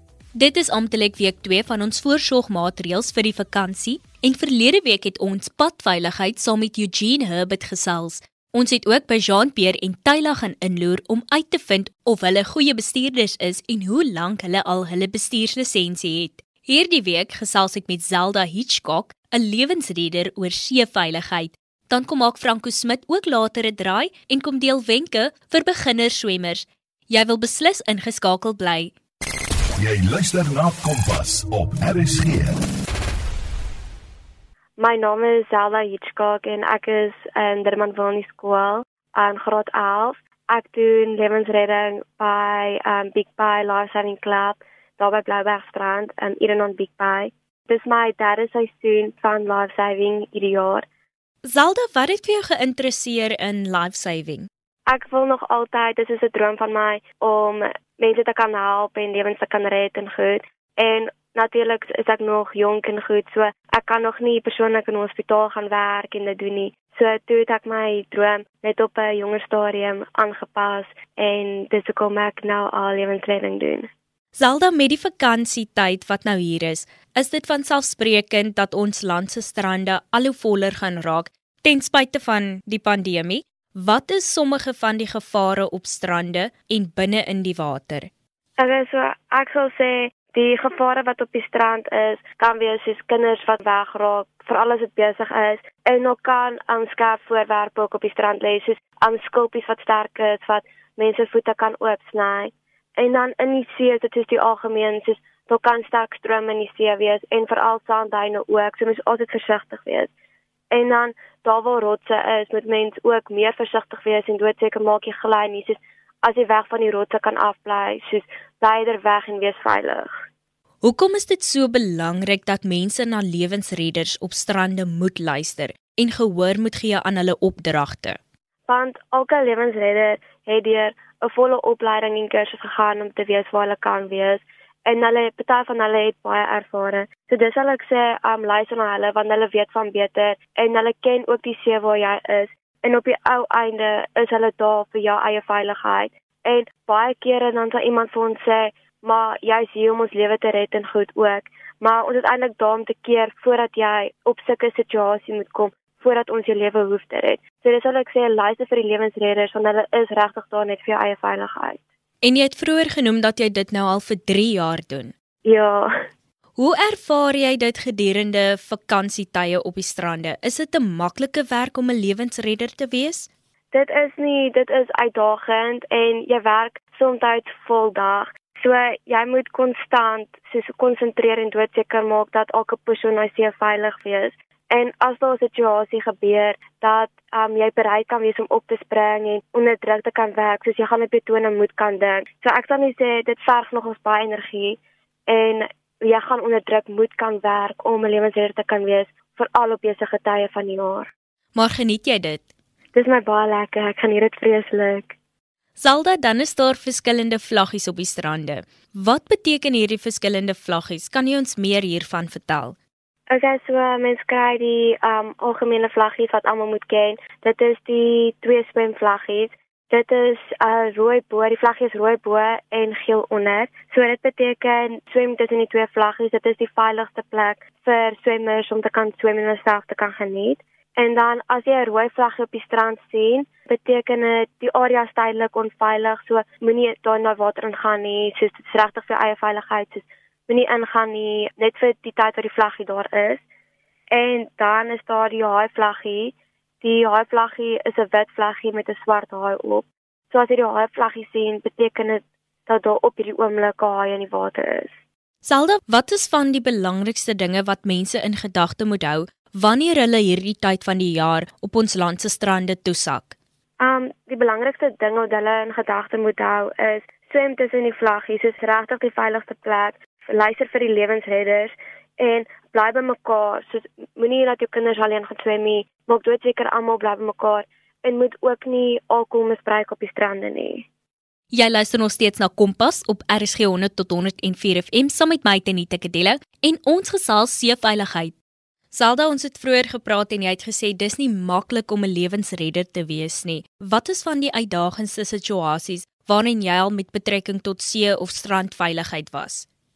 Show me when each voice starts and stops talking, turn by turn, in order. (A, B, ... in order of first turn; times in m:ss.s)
0:00.3-0:28.9 A
0:29.8-0:32.6 B
0:34.8-0:50.8 C
0:51.4-0:54.5 A
0:54.9-1:13.9 C
1:14.4-1:28.1 A
1:28.6-1:50.1 C
1:50.7-2:00.1 C
2:00.8-2:08.2 A
2:08.7-2:41.8 C
2:42.2-2:45.1 A
2:45.4-2:45.9 C
2:46.6-2:53.3 A
2:53.7-3:21.1 C
3:21.5-3:22.4 A
3:22.9-3:25.1 C
3:25.8-3:32.8 A
3:33.3-4:03.4 C
4:04.1-4:14.9 C
4:15.4-4:23.3 A
4:23.8-4:40.8 C
4:41.5-4:48.3 A
4:48.9-4:59.6 A